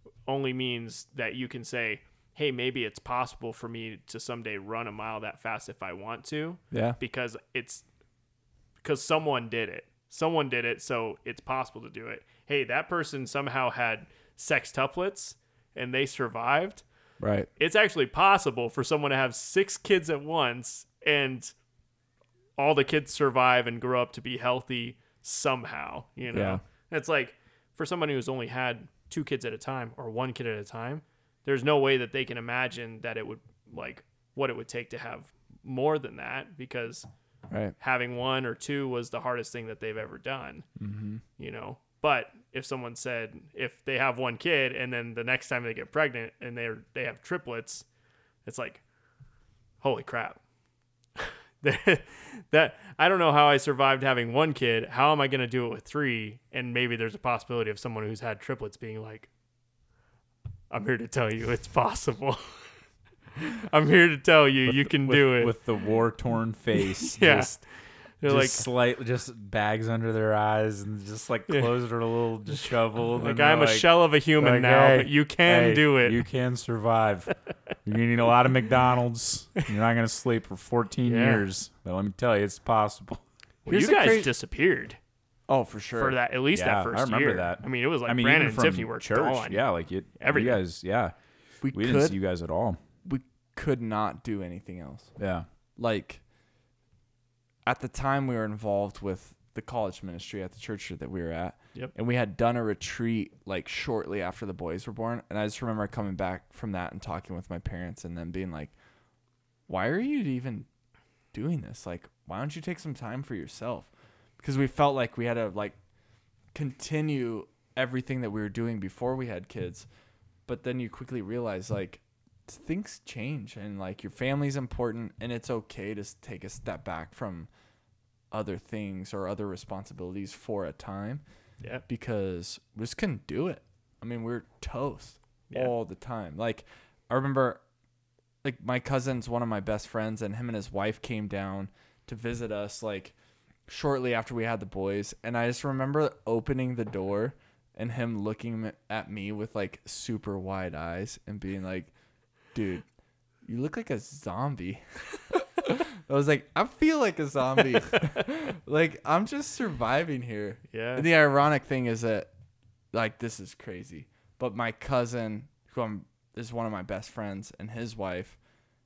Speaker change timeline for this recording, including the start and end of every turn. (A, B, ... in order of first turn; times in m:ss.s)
0:00.3-0:07.8 A
0:06.7-0:07.0 B
0:08.8-0:16.8 A
0:17.2-0:17.5 B
0:17.6-0:21.5 A
0:22.6-0:37.1 A
0:26.3-0:26.6 B
0:37.5-0:37.8 B
0:37.8-0:40.7 A
0:40.8-0:41.2 B
0:41.4-0:47.9 A
0:48.4-0:48.8 A
0:49.8-0:50.4 A
0:51.2-0:59.3 A
1:00.7-1:02.8 A
1:03.4-1:05.6 A
1:04.7-1:23.2 C
1:07.0-1:08.6 A
1:11.5-1:11.7 A
1:12.5-1:16.2 A
1:21.0-1:21.4 A
1:23.6-1:25.0 A
1:23.7-1:24.3 B
1:25.5-1:26.2 B
1:26.0-1:29.6 A
1:26.5-1:32.8 C
1:30.2-1:30.6 A
1:31.6-1:32.2 B
1:33.0-1:35.1 B
1:35.2-1:35.5 C
1:35.8-1:36.2 B
1:37.7-1:48.8 B
1:49.7-1:50.7 B
1:51.3-1:55.8 B
1:56.5-1:59.9 B
2:00.5-2:07.5 B
2:08.3-2:11.2 B
2:11.9-2:17.6 B
2:18.4-2:23.2 B
2:23.7-2:31.9 B
2:32.5-2:32.9 B
2:33.4-2:42.3 B
2:40.7-2:41.1 A
2:42.9-2:48.4 B